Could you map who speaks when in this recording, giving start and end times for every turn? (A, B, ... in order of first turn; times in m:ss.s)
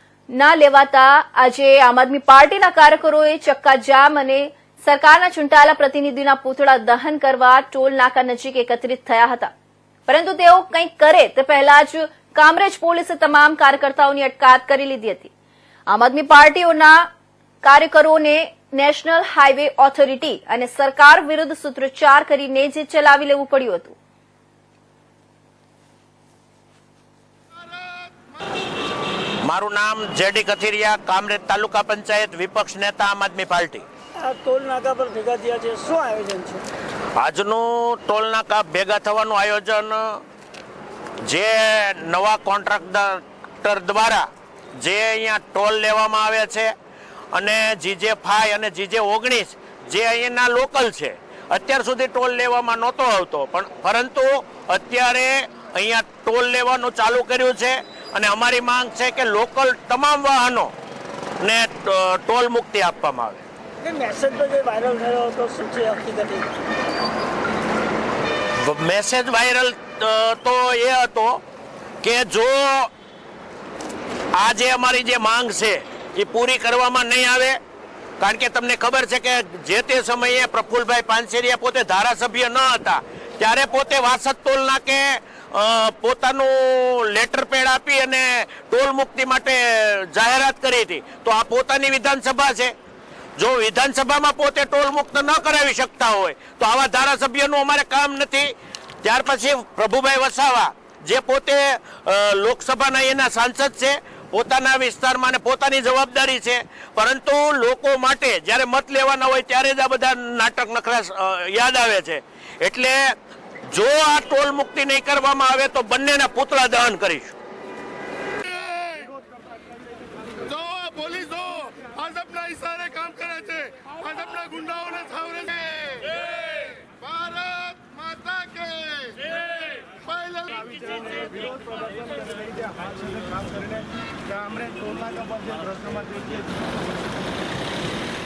0:00.3-0:09.5 A
0:10.1-0:15.3 A
0:15.9-0:17.1 A
0:17.6-0:24.0 A
0:29.4-0:33.9 B
0:34.2-0:36.6 C
0:37.2-0:40.2 B
0:41.2-0:46.7 B
0:47.3-1:00.7 B
1:01.4-1:03.4 B
1:03.8-1:06.5 C
1:08.6-1:11.4 B
1:12.0-1:12.9 B
1:14.4-1:17.6 B
1:18.2-1:32.8 B
1:33.4-1:53.1 B
1:53.7-1:57.4 B
1:58.5-1:59.1 D
2:00.5-2:06.2 D
2:06.8-2:09.3 D
2:09.9-2:11.0 D